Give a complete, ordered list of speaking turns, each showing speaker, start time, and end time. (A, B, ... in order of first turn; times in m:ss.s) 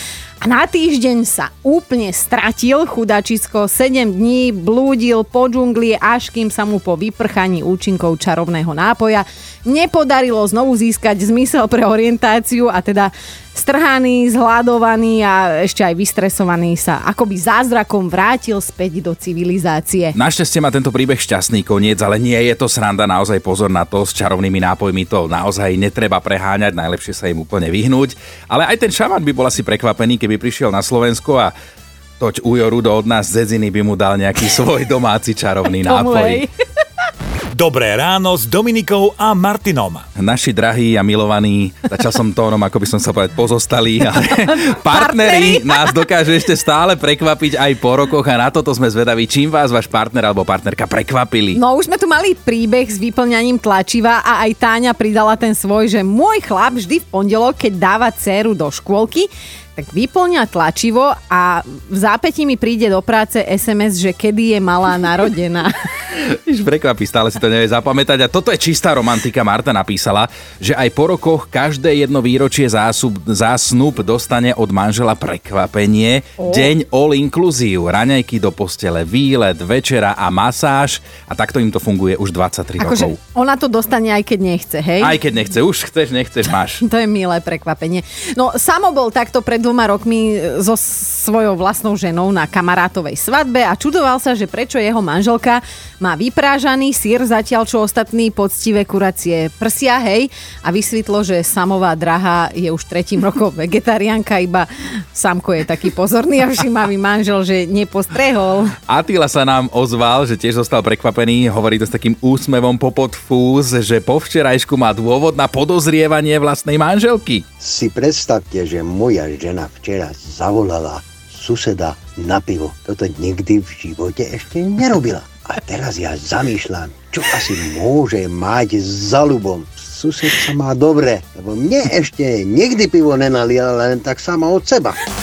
0:00.4-0:20.2 A
0:20.1-0:31.5 B
0:32.2-0:36.4 B
0:35.7-0:36.5 A
0:37.5-0:40.0 C
0:40.2-0:51.6 B
0:44.5-0:45.9 A
0:51.5-1:05.7 A
1:06.1-1:23.2 B
1:16.4-1:16.7 A
1:22.8-1:25.2 A
1:25.0-1:26.8 B
1:26.8-1:48.8 A
1:48.9-1:57.4 B
1:57.6-2:15.0 D